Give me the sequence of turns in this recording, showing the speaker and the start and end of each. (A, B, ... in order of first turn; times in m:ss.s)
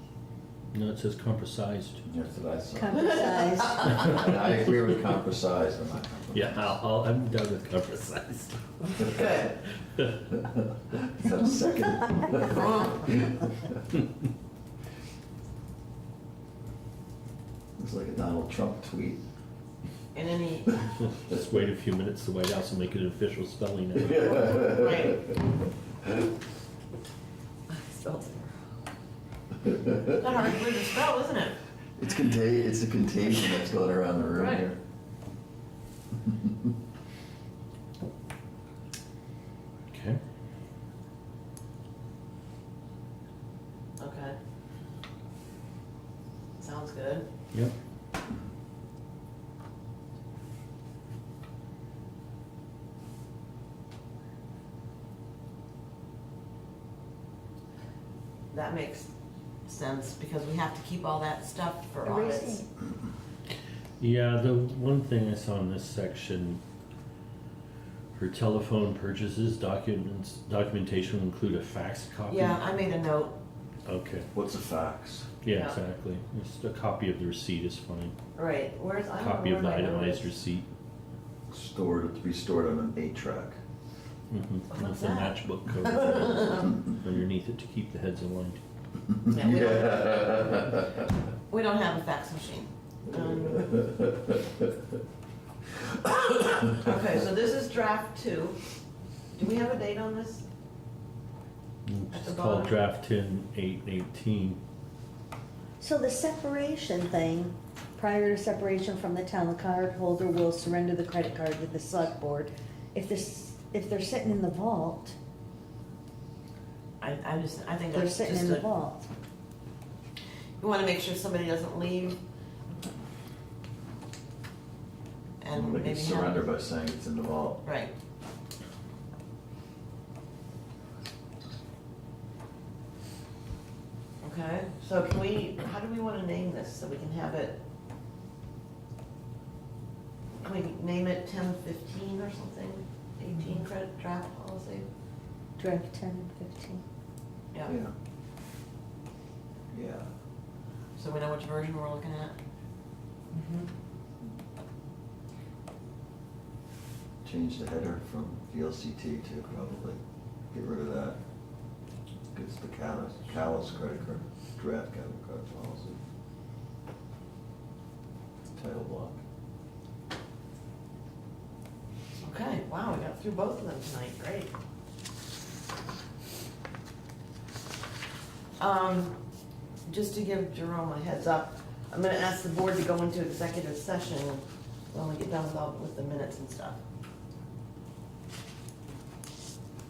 0:00.7-0:02.0 A
0:02.0-0:06.8 B
0:02.8-0:03.9 C
0:03.0-0:04.1 D
0:06.3-0:09.0 A
0:09.0-0:09.3 B
0:09.0-0:09.6 D
0:10.3-0:13.7 B
0:17.8-0:19.2 B
0:20.1-0:20.8 D
0:21.0-0:24.6 A
0:24.0-0:25.4 B
0:24.5-0:25.3 D
0:27.7-0:28.5 D
0:29.9-0:31.6 D
0:32.0-0:34.8 B
0:34.3-0:34.7 D
0:36.2-0:36.5 B
0:39.9-0:40.2 A
0:44.0-0:44.4 D
0:46.6-0:47.3 D
0:58.5-0:59.1 D
0:59.6-1:02.6 D
1:02.0-1:02.7 C
1:04.0-1:06.6 A
1:08.1-1:12.6 A
1:12.3-1:13.4 D
1:13.8-1:14.3 A
1:14.3-1:15.3 B
1:15.4-1:18.1 A
1:15.5-1:15.8 D
1:18.3-1:20.3 D
1:19.2-1:20.7 A
1:21.5-1:23.6 B
1:24.3-1:28.6 A
1:24.7-1:26.8 D
1:29.2-1:31.0 B
1:29.3-1:30.5 D
1:31.5-1:33.7 D
1:33.2-1:34.7 B
1:36.3-1:38.6 D
1:39.3-1:40.5 D
1:41.8-1:44.6 A
1:42.1-1:42.8 D
1:45.8-1:55.2 C
1:57.0-1:58.6 D
1:57.9-1:59.1 C
2:00.6-2:02.2 D
2:05.4-2:06.4 D
2:05.5-2:07.6 B
2:07.6-2:07.9 D
2:14.2-2:17.6 D
2:20.4-2:24.9 D
2:25.6-2:26.8 C
2:27.7-2:27.9 B
2:29.7-2:30.1 B
2:31.0-2:32.4 D
2:33.3-2:33.7 C
2:37.2-2:40.0 B
2:40.5-2:41.2 B
2:42.3-2:46.0 B
2:48.5-2:49.2 B
2:52.2-2:54.5 D
2:58.6-2:59.2 D
2:59.9-3:06.8 D